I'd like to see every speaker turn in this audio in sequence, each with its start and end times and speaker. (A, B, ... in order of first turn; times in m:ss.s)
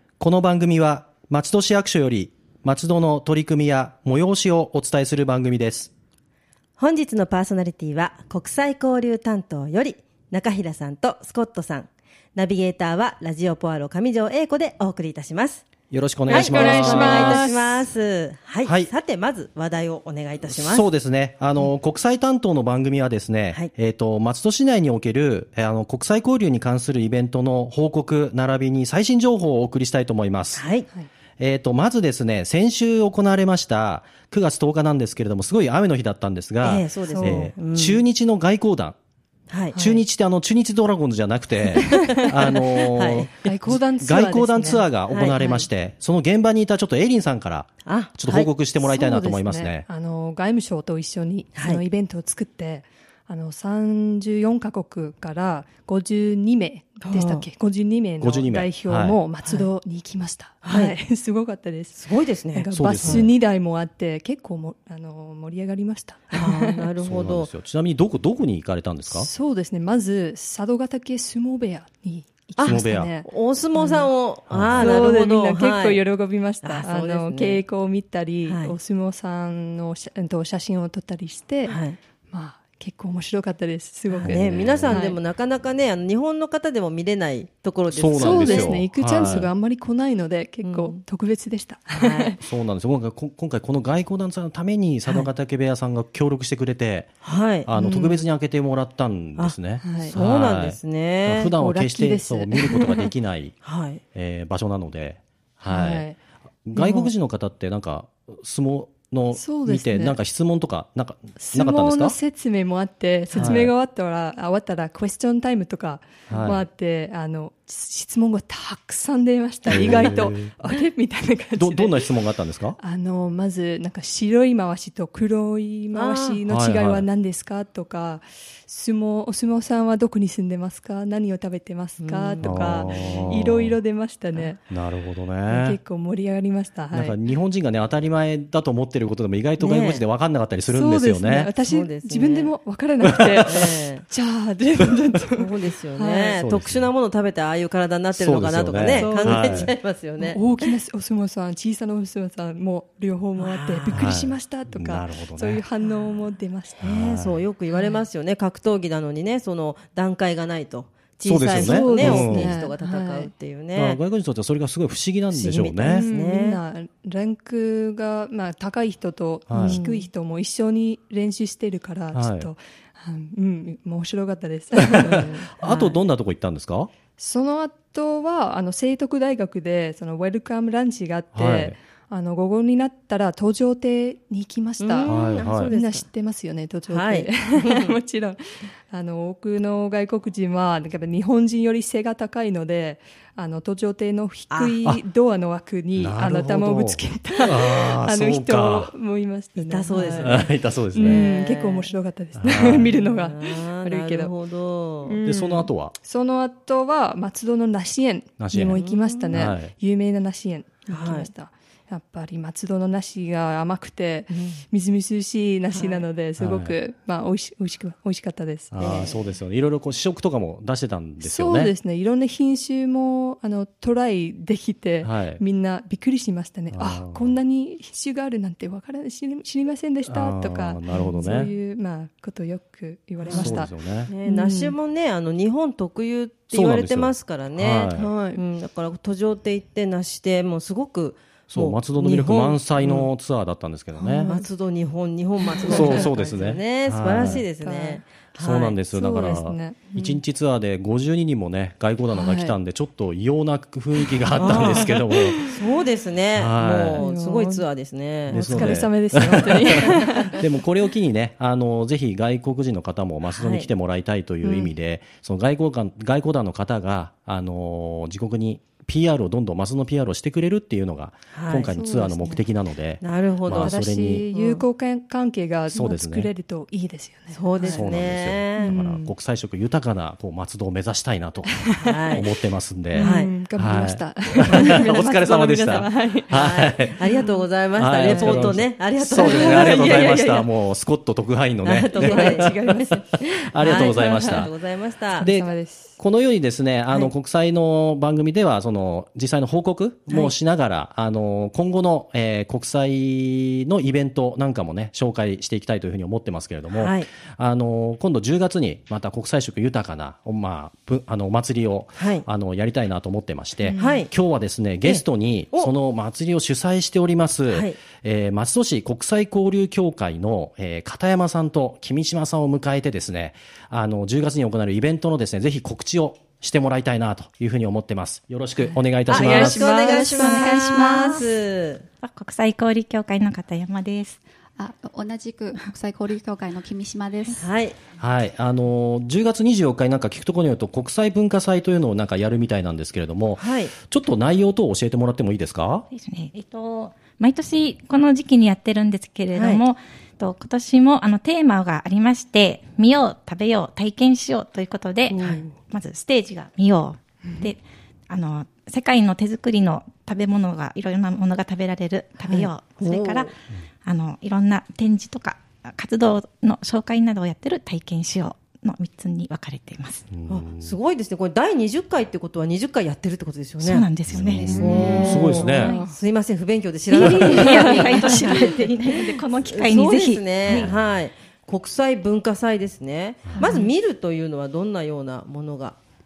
0:00.2-0:05.9 A
0:06.8-0:15.6 B
0:15.9-0:17.5 A
0:16.3-0:17.8 C
0:16.3-0:20.9 B
0:18.6-0:18.9 A
0:20.5-0:30.7 A
0:30.6-0:30.9 B
0:31.4-0:39.0 A
0:36.6-0:38.0 B
0:37.1-0:37.5 C
0:39.5-0:39.8 B
0:39.7-0:40.0 C
0:39.7-0:49.9 A
0:41.8-0:42.3 C
0:42.8-0:43.3 B
0:43.4-0:44.9 C
0:45.1-0:45.7 B
0:47.9-0:48.7 B
0:48.7-1:06.9 C
0:51.6-0:51.8 B
0:57.0-0:57.5 B
0:58.2-0:59.2 A
1:00.6-1:01.0 B
1:02.0-1:03.3 B
1:02.7-1:03.3 A
1:06.3-1:07.5 B
1:07.0-1:09.3 A
1:09.1-1:14.1 C
1:12.6-1:16.0 B
1:12.6-1:13.2 A
1:14.5-1:14.9 A
1:14.7-1:21.8 C
1:16.6-1:17.6 B
1:18.4-1:18.7 B
1:21.7-1:22.0 B
1:22.3-1:25.2 C
1:24.1-1:28.7 B
1:24.3-1:24.9 A
1:27.9-1:29.5 A
1:28.1-1:32.4 C
1:30.6-1:31.0 B
1:32.0-1:32.3 B
1:32.4-1:37.1 A
1:37.2-1:37.7 B
1:37.7-1:43.6 A
1:37.7-1:38.3 C
1:39.4-1:41.5 B
1:39.8-1:40.2 C
1:41.4-1:43.1 C
1:43.6-1:44.0 B
1:44.1-1:46.0 A
1:45.7-1:46.2 C
1:46.7-1:52.2 A
1:46.8-1:47.1 C
1:49.3-1:50.2 C
1:51.4-2:02.2 C
1:53.3-1:53.7 A
1:56.3-1:56.6 A
1:59.7-2:00.5 A
2:01.6-2:02.8 A
2:02.8-2:14.7 C
2:06.0-2:06.4 B
2:06.5-2:07.0 A
2:12.0-2:13.2 B
2:12.4-2:13.8 A
2:14.7-2:15.8 A
2:15.4-2:17.2 C
2:16.9-2:21.5 A
2:19.6-2:20.0 B
2:20.7-2:26.4 C
2:21.6-2:22.5 B
2:23.0-2:23.5 A
2:23.4-2:24.0 B
2:25.4-2:30.4 B
2:26.4-2:26.9 A
2:28.1-2:29.7 A
2:28.9-2:36.9 C
2:33.4-2:34.2 B
2:34.0-2:35.6 A
2:36.8-2:37.4 A
2:36.8-2:44.0 B
2:37.7-2:38.0 C
2:41.2-2:42.5 A
2:41.4-2:43.3 C
2:43.8-2:46.1 A
2:45.3-2:46.6 B
2:45.8-2:55.8 C
2:49.5-2:49.8 A
2:49.5-2:50.1 B
2:52.1-2:52.5 A
2:54.8-2:56.9 A
2:55.0-2:55.9 B
2:57.2-3:24.3 C
3:01.3-3:01.8 A
3:04.8-3:06.0 B
3:05.1-3:05.7 A
3:06.9-3:07.9 B
3:14.5-3:14.8 B
3:16.0-3:18.9 A
3:19.6-3:20.5 B
3:20.2-3:21.2 A
3:21.0-3:21.9 B
3:22.4-3:22.9 A
3:22.8-3:25.2 B
3:25.0-3:39.0 C
3:25.2-3:25.9 A
3:28.4-3:28.8 A
3:28.8-3:29.4 B
3:29.3-3:29.7 A
3:30.9-3:31.3 B
3:34.3-3:34.6 B
3:35.8-3:36.0 B
3:36.4-3:36.7 A
3:38.7-3:41.7 A
3:38.8-3:39.2 B
3:41.2-3:54.7 C
3:45.0-3:45.4 A
3:46.7-3:47.3 A
3:50.1-3:51.5 A
3:50.9-3:51.3 B
3:53.2-4:03.1 B
3:53.3-3:54.1 A
3:56.5-3:58.1 A
3:57.9-3:58.4 C
4:01.5-4:04.3 A
4:04.0-4:04.5 C
4:04.3-4:09.3 B
4:05.5-4:06.2 C
4:05.6-4:07.4 A
4:07.1-4:08.2 C
4:08.4-4:15.4 A
4:08.9-4:10.2 C
4:12.1-4:12.6 C
4:14.4-4:14.9 B
4:14.4-4:15.5 C
4:15.5-4:18.8 B
4:16.4-4:17.0 A
4:17.0-4:17.7 C
4:18.3-4:20.5 C
4:18.3-4:34.3 A
4:23.2-4:23.7 B
4:24.4-4:24.8 C
4:31.3-4:31.7 B
4:31.7-4:32.4 C
4:33.0-4:33.8 B
4:33.5-4:37.9 C
4:34.3-4:34.6 B
4:35.7-4:36.3 A
4:37.3-4:38.7 B
4:37.7-4:47.0 A
4:38.6-4:39.1 C
4:41.5-4:42.0 C
4:41.8-4:42.2 B
4:42.9-4:46.5 C
4:43.0-4:43.3 B
4:46.3-4:50.2 B
4:47.1-4:47.4 C
4:47.7-4:52.6 A
4:48.1-4:48.5 C
4:49.1-4:50.5 C
4:51.6-4:55.3 B
4:51.9-4:53.2 C
4:53.4-4:54.5 A
4:53.9-4:54.5 C
4:55.2-4:56.0 C
4:55.2-5:29.9 A
5:06.7-5:07.1 B
5:12.0-5:12.2 B
5:13.8-5:14.1 B
5:14.8-5:15.7 B
5:17.5-5:17.8 B
5:28.6-5:30.3 C
5:29.1-5:31.8 B
5:29.9-5:31.2 D
5:30.0-5:31.3 E
5:32.0-5:34.2 D
5:34.6-5:37.5 E
5:37.4-5:37.8 B
5:38.0-5:45.9 A
5:43.4-5:43.7 B
5:45.9-6:03.3 D
5:49.3-5:49.6 B
5:55.1-5:55.5 C
6:02.8-6:03.3 B
6:03.8-6:10.0 D
6:10.1-6:10.8 A
6:10.3-6:13.9 B
6:13.6-6:15.9 D
6:14.1-6:15.8 A
6:14.5-6:25.8 B
6:14.5-6:15.9 C
6:16.9-6:20.7 D
6:20.5-6:20.8 A